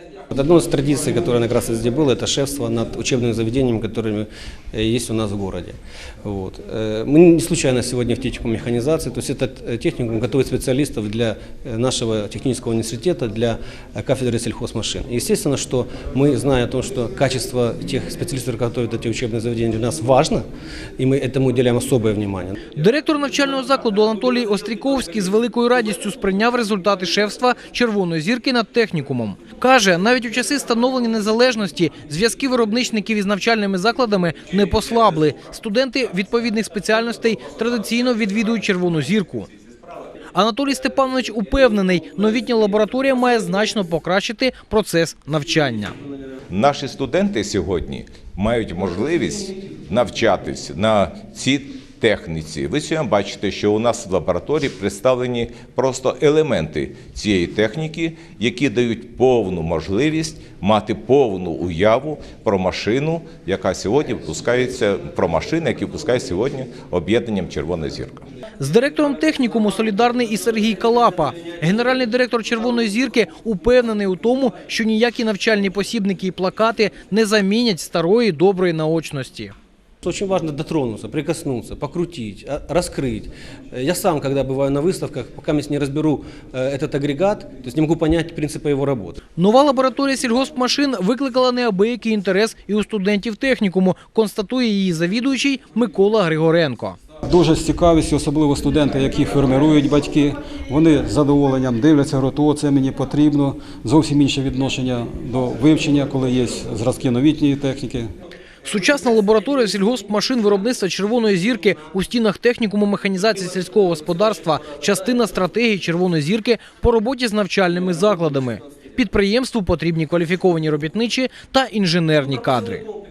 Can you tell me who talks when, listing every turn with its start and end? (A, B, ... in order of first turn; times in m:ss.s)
0:00.3-0:20.4 A
0:21.0-0:22.6 A
0:22.7-0:39.5 B
0:40.4-0:46.0 B
0:46.5-1:08.2 C
1:08.6-1:19.5 B
1:20.0-1:29.2 A
1:29.4-1:37.0 B
1:37.2-1:48.1 D
1:48.6-2:02.9 B